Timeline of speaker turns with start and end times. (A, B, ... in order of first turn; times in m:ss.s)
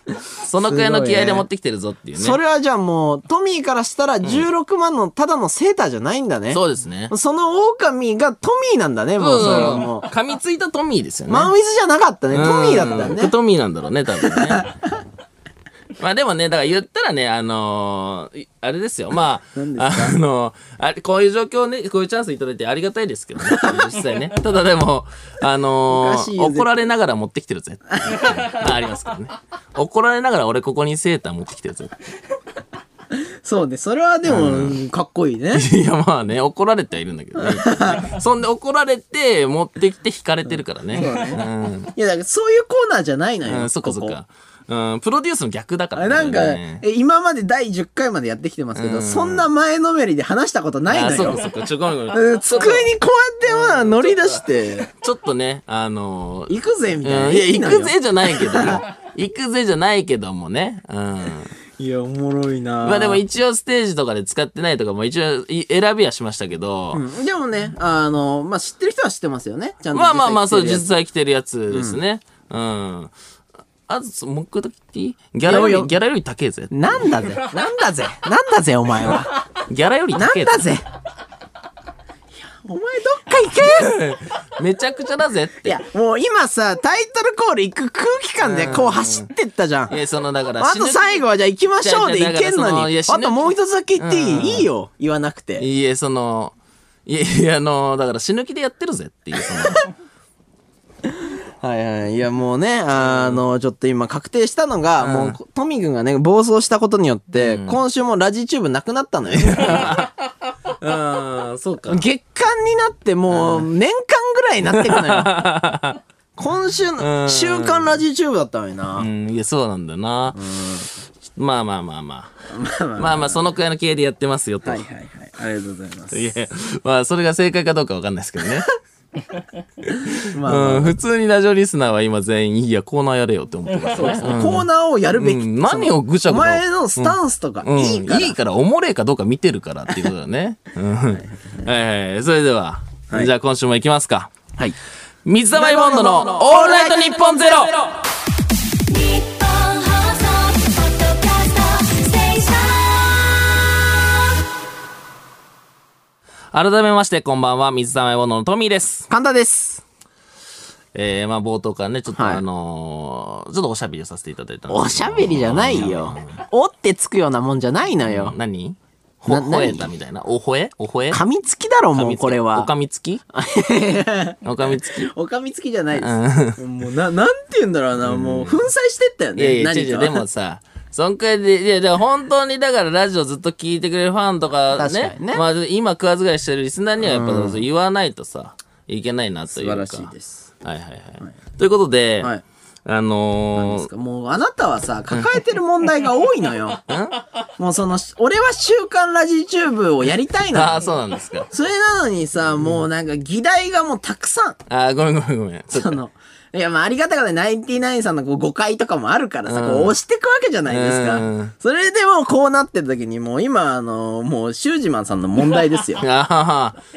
0:00.4-0:02.4 A
0:00.6-0:01.4 B
0:02.1-0:10.1 B
0:06.5-0:07.1 A
0:09.2-0:11.5 A
0:11.3-0:13.3 B
0:12.3-0:14.7 A
0:14.3-0:14.8 B
0:16.0-0:31.9 A
0:19.6-0:20.2 B
0:23.4-0:23.9 B
0:25.9-0:26.7 B
0:28.0-0:28.4 B
0:33.1-0:35.6 B
0:34.2-0:34.8 A
0:35.5-0:41.9 A
0:37.4-0:38.1 B
0:40.9-0:41.4 B
0:41.9-0:44.2 B
0:43.5-0:46.8 A
0:45.9-0:51.4 B
0:48.7-0:49.5 A
0:50.9-0:52.9 A
0:52.1-0:54.9 B
0:53.4-1:01.5 A
0:56.5-0:58.8 B
1:01.8-1:03.2 B
1:02.8-1:07.0 A
1:06.9-1:10.9 B
1:09.9-1:13.1 A
1:11.7-1:12.0 B
1:13.9-1:17.2 A
1:15.4-1:15.9 B
1:16.7-1:19.4 B
1:19.6-1:20.6 A
1:20.1-1:20.8 B
1:22.3-1:24.0 B
1:23.3-1:25.8 A
1:25.6-1:30.0 B
1:28.4-1:29.3 A
1:29.9-1:31.2 A
1:30.6-1:35.6 B
1:31.8-1:34.7 A
1:35.6-1:36.5 A
1:37.0-1:39.9 A
1:41.1-1:50.0 B
1:43.0-1:43.4 A
1:45.0-1:45.4 A
1:47.4-1:47.8 A
1:49.3-1:52.0 A
1:51.9-1:55.3 B
1:53.3-1:53.7 A
1:54.7-1:56.0 A
1:56.4-1:59.1 B
1:57.0-1:58.0 A
1:59.0-2:00.4 A
2:00.3-2:00.9 B
2:01.3-2:02.3 A
2:02.5-2:03.5 B
2:03.0-2:04.8 A
2:04.6-2:06.3 B
2:06.1-2:08.7 A
2:09.8-2:24.3 A
2:10.2-2:11.0 B
2:13.9-2:18.4 B
2:21.2-2:21.7 B
2:25.2-2:28.0 A
2:25.5-2:27.8 B
2:28.9-2:33.7 C
2:36.5-2:39.1 A
2:39.1-2:39.8 B
2:40.9-2:46.4 A
2:42.1-2:42.4 B
2:44.7-2:48.4 B
2:48.0-2:51.2 A
2:49.3-2:49.9 B
2:51.1-2:52.7 B
2:51.9-2:53.2 A
2:53.3-3:00.2 B
2:54.4-2:55.1 A
2:56.0-2:56.6 A
2:58.0-2:58.6 A
2:59.4-3:10.1 A
3:04.7-3:05.4 B
3:07.0-3:07.6 B
3:09.5-3:10.5 B
3:10.6-3:12.3 A
3:12.8-3:13.9 A
3:13.5-3:16.8 B
3:16.9-3:17.2 A
3:17.6-3:20.8 B
3:20.5-3:21.5 A
3:21.5-3:24.6 B
3:24.7-3:26.0 A
3:25.7-3:36.0 B
3:29.4-3:30.0 A
3:30.7-3:31.5 A
3:36.0-3:36.8 A